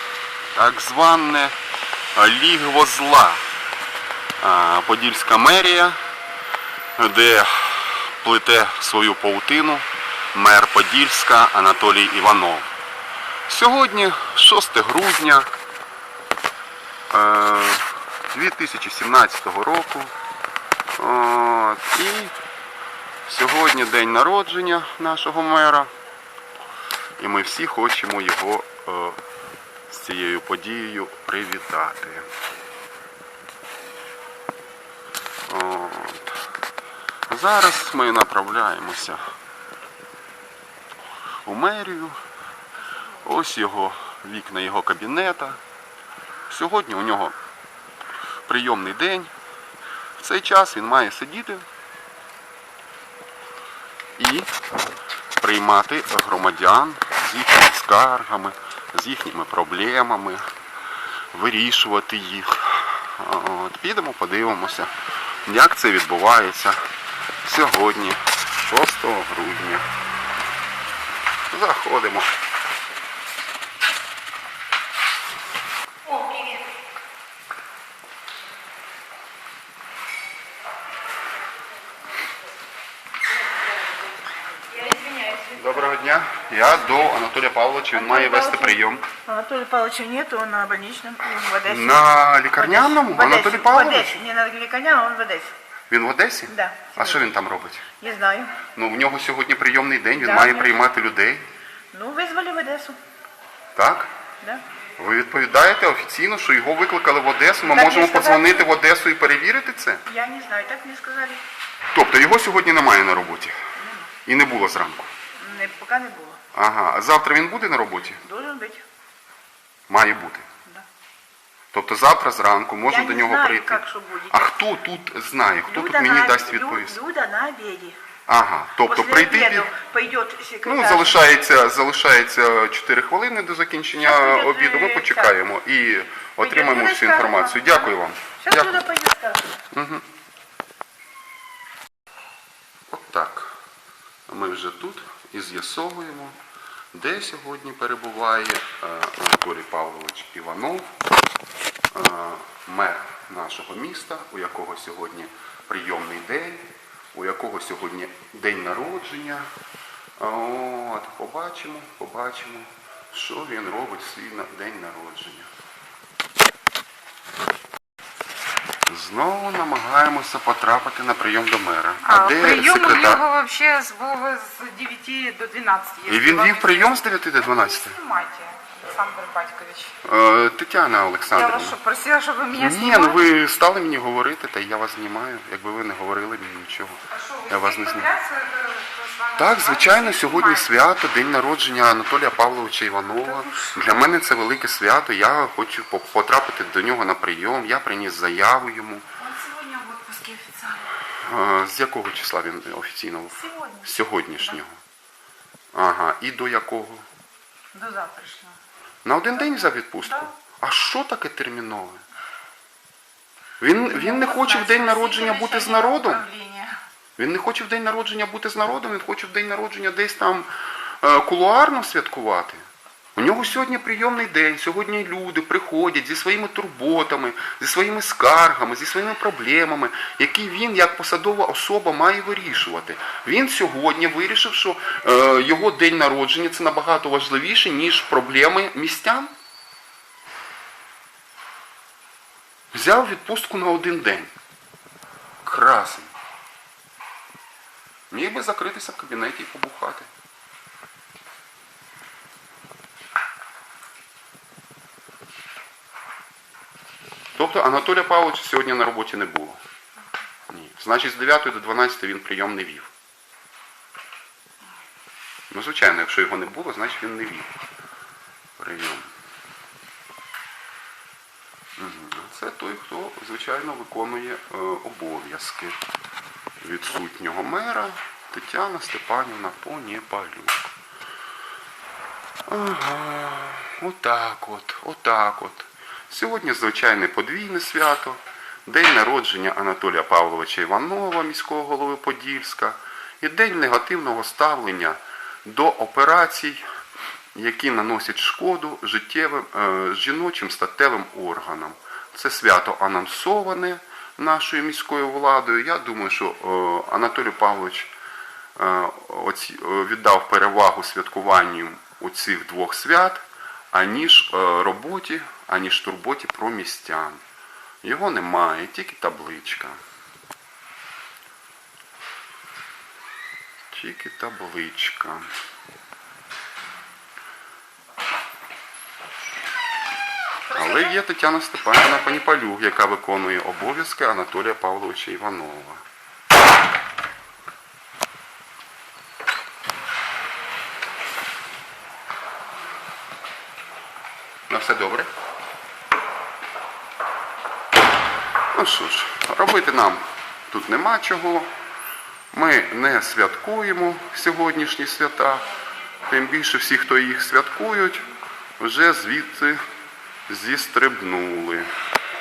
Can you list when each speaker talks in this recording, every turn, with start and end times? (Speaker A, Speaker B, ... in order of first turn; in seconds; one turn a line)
Speaker A: 0.5-1.5
Speaker A: 2.1-3.4
Speaker A: 4.4-6.0
Speaker A: 7.0-12.7
Speaker A: 13.5-15.5
Speaker A: 17.1-20.1
Speaker A: 21.0-22.3
Speaker A: 23.2-25.9
Speaker A: 27.2-29.2
Speaker A: 29.9-32.2
Speaker A: 35.5-36.4
Speaker A: 37.3-39.2
Speaker A: 41.4-42.2
Speaker A: 43.2-45.6
Speaker A: 46.5-47.3
Speaker A: 48.5-49.3
Speaker A: 50.2-51.6
Speaker A: 54.2-54.5
Speaker A: 55.4-60.4
Speaker A: 61.3-64.9
Speaker A: 65.4-66.8
Speaker A: 67.4-69.8
Speaker A: 71.5-72.3
Speaker B: 76.1-76.5
Speaker B: 84.7-85.5
Speaker A: 85.5-89.0
Speaker B: 87.9-95.5
Speaker A: 91.6-94.2
Speaker A: 95.9-97.9
Speaker B: 96.5-97.2
Speaker B: 98.0-98.6
Speaker A: 98.7-101.5
Speaker B: 100.2-100.8
Speaker B: 101.9-103.0
Speaker A: 103.8-104.1
Speaker A: 105.0-110.0
Speaker B: 107.7-108.7
Speaker B: 110.0-111.4
Speaker A: 111.9-113.5
Speaker B: 113.8-114.1
Speaker A: 114.2-115.1
Speaker B: 115.4-116.4
Speaker A: 116.5-118.2
Speaker B: 118.2-118.8
Speaker A: 119.9-120.5
Speaker A: 121.7-126.9
Speaker B: 122.8-124.4
Speaker B: 125.7-128.0
Speaker A: 128.3-129.7
Speaker B: 128.8-131.2
Speaker A: 130.6-138.8
Speaker B: 134.0-135.3
Speaker B: 136.4-139.5
Speaker A: 139.7-140.0
Speaker A: 142.9-143.5
Speaker A: 144.3-146.3
Speaker A: 146.9-150.9
Speaker A: 151.9-159.4
Speaker A: 160.2-165.5
Speaker A: 168.9-173.2
Speaker C: 172.0-177.0
Speaker A: 176.1-178.0
Speaker C: 177.5-179.9
Speaker A: 180.0-181.8
Speaker C: 181.3-183.2
Speaker A: 182.5-188.1
Speaker C: 187.1-190.7
Speaker A: 189.3-199.0
Speaker C: 193.3-193.8
Speaker C: 199.2-200.9
Speaker A: 201.1-204.8
Speaker B: 203.5-203.8
Speaker A: 205.7-207.1
Speaker B: 207.7-208.1
Speaker C: 207.9-208.5
Speaker A: 209.0-212.0
Speaker A: 213.6-216.2
Speaker C: 214.0-216.7
Speaker B: 216.2-216.8
Speaker A: 217.2-220.5
Speaker A: 221.0-222.6
Speaker A: 223.2-239.3
Speaker A: 242.7-244.3
Speaker A: 245.4-246.1
Speaker A: 248.1-250.1
Speaker A: 257.3-259.6
Speaker A: 260.5-262.9
Speaker A: 265.5-267.5
Speaker A: 268.6-269.1
Speaker A: 271.8-275.8
Speaker A: 276.6-280.7
Speaker A: 282.5-296.6
Speaker A: 297.3-307.9
Speaker A: 308.6-317.2
Speaker A: 317.8-319.8
Speaker A: 323.7-325.2
Speaker A: 330.5-335.8
Speaker A: 344.5-345.1
Speaker A: 348.5-351.5
Speaker A: 352.3-355.4
Speaker A: 356.1-358.1
Speaker A: 358.6-359.6
Speaker A: 360.3-361.7